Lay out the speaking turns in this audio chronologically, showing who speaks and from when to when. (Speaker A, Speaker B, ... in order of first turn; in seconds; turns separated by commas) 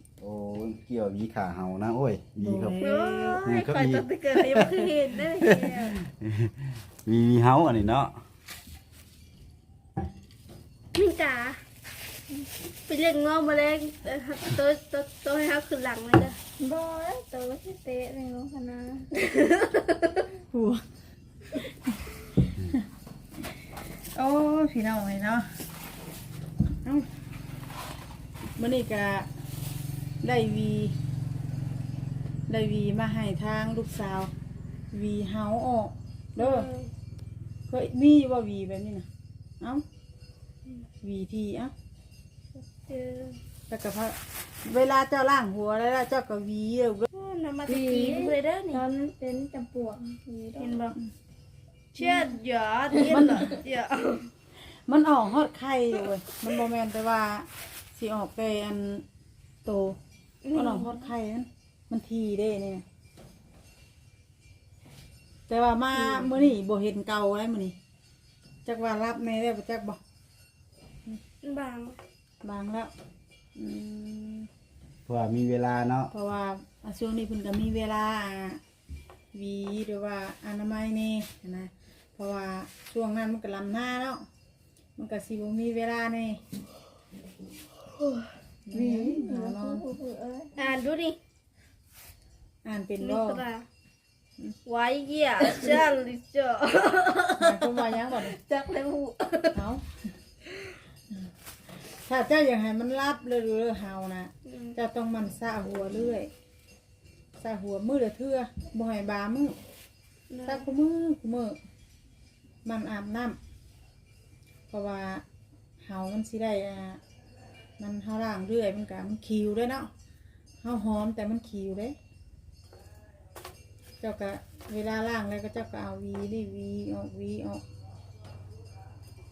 Speaker A: 0.2-2.8, Speaker B: 2.4-3.4, Speaker C: 2.8-5.9, Speaker A: 3.4-6.5, Speaker A: 7.0-8.1, Speaker C: 10.9-11.6, Speaker C: 12.9-16.4, Speaker D: 16.6-19.1, Speaker C: 19.2-20.2, Speaker B: 20.5-20.8, Speaker B: 24.1-25.6, Speaker B: 28.6-29.3, Speaker B: 30.2-30.9, Speaker B: 32.5-34.3, Speaker B: 34.9-36.7, Speaker C: 36.4-36.9, Speaker B: 37.7-39.1, Speaker B: 41.0-41.7, Speaker C: 42.5-43.4, Speaker B: 43.7-47.1, Speaker C: 47.1-48.8, Speaker D: 47.7-50.8, Speaker C: 50.6-51.0, Speaker C: 51.9-54.3, Speaker B: 53.1-53.5, Speaker B: 54.9-59.0, Speaker B: 59.6-60.0, Speaker C: 60.4-61.1, Speaker B: 60.5-62.8, Speaker B: 65.5-67.7, Speaker C: 66.0-66.5, Speaker B: 68.6-70.0, Speaker C: 71.4-72.0, Speaker B: 72.4-72.9, Speaker B: 73.5-74.5, Speaker A: 75.0-76.1, Speaker B: 76.1-78.6, Speaker B: 79.3-84.2, Speaker B: 85.0-86.4, Speaker B: 88.7-89.9, Speaker D: 88.7-90.6, Speaker C: 90.5-91.2, Speaker B: 92.6-93.4, Speaker C: 93.0-93.7, Speaker C: 94.7-99.5, Speaker B: 97.4-98.3, Speaker B: 99.5-99.8, Speaker B: 101.1-106.3, Speaker C: 104.4-104.8, Speaker B: 107.4-109.5, Speaker C: 110.3-110.7, Speaker B: 110.5-111.6, Speaker B: 112.6-113.4, Speaker B: 114.7-115.2, Speaker B: 115.8-117.0, Speaker B: 117.8-119.9, Speaker B: 120.6-122.0, Speaker B: 124.0-127.6